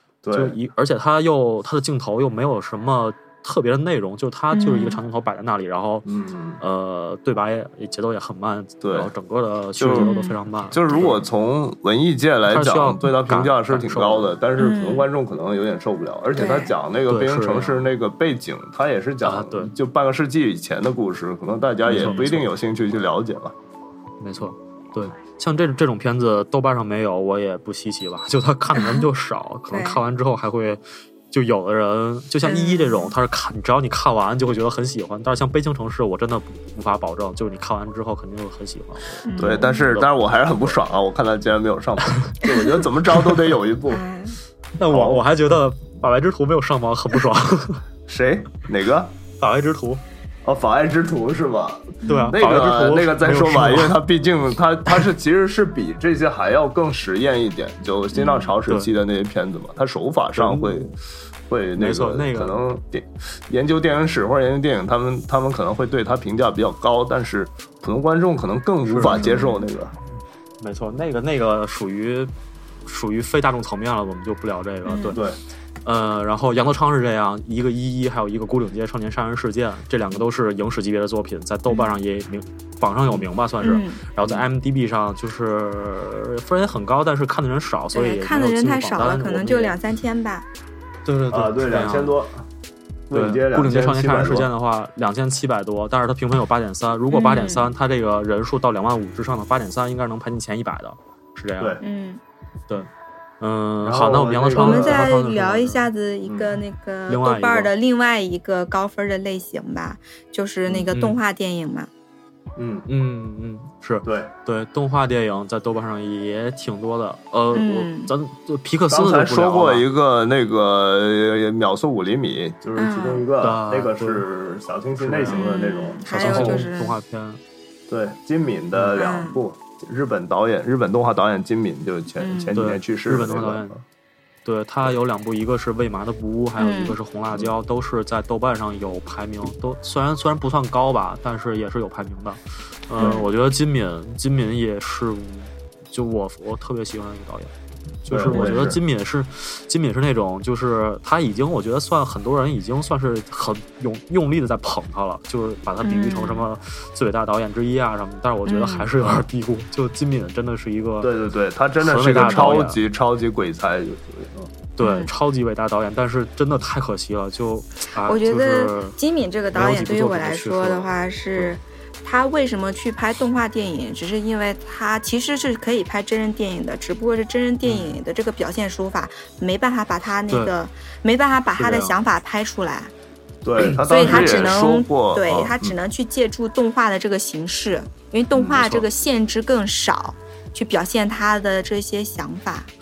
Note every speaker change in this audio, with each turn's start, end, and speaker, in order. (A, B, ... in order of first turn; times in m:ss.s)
0:00.2-0:00.6 A
0:00.3-0:11.2 B
0:04.5-0:05.0 C
0:06.0-0:06.6 A
0:08.8-0:09.1 A
0:09.8-0:10.1 A
0:09.9-0:10.4 C
0:10.7-0:23.5 A
0:12.5-0:14.3 B
0:14.6-0:15.1 C
0:16.4-0:16.7 C
0:17.1-0:17.9 B
0:19.2-0:19.7 B
0:21.8-0:22.5 B
0:24.2-0:40.8 B
0:28.8-0:29.1 C
0:29.7-0:30.0 C
0:32.4-0:33.2 C
0:39.2-0:39.8 C
0:39.4-0:44.0 A
0:43.9-0:44.4 C
0:44.8-0:47.8 B
0:44.9-0:45.2 A
0:48.1-0:49.1 A
0:49.4-0:50.0 B
0:50.4-1:01.0 A
0:52.0-0:52.3 C
0:52.2-0:54.0 B
0:58.1-0:58.5 C
0:58.7-0:58.9 B
1:00.4-1:00.9 B
1:01.5-1:10.0 A
1:01.8-1:02.6 B
1:08.9-1:09.5 B
1:09.2-1:09.6 C
1:10.6-1:12.3 B
1:12.8-1:15.2 B
1:14.9-1:15.2 C
1:15.8-1:29.8 B
1:23.6-1:24.0 C
1:27.9-1:30.5 C
1:31.0-1:32.2 B
1:31.3-1:32.5 A
1:33.1-1:34.5 A
1:33.1-1:41.8 B
1:37.1-1:37.7 C
1:41.8-1:42.2 C
1:43.4-1:45.9 B
1:43.8-1:45.1 A
1:44.6-1:51.9 C
1:46.2-1:46.6 A
1:47.1-1:47.7 B
1:50.9-1:51.2 B
1:52.6-1:52.9 A
1:52.9-1:59.9 B
1:54.0-1:54.3 A
1:57.5-1:58.1 C
1:58.9-2:06.7 A
2:02.8-2:03.3 C
2:03.4-2:04.2 B
2:05.0-2:05.4 B
2:05.3-2:07.0 C
2:06.1-2:07.4 B
2:07.9-2:13.8 A
2:09.0-2:09.4 C
2:12.2-2:12.5 C
2:12.6-2:13.8 B
2:14.4-2:27.5 B
2:16.6-2:17.0 C
2:23.0-2:23.3 C
2:28.0-2:41.1 B
2:28.1-2:28.8 A
2:35.8-2:36.4 C
2:38.5-2:38.9 C
2:41.0-2:44.5 A
2:41.8-2:42.8 B
2:44.8-2:49.0 B
2:44.8-2:45.1 C
2:48.0-3:02.9 C
2:49.5-2:51.5 B
2:57.6-2:58.0 B
3:01.6-3:02.0 B
3:03.4-3:05.8 A
3:03.6-3:04.6 B
3:03.8-3:12.7 C
3:08.5-3:08.9 B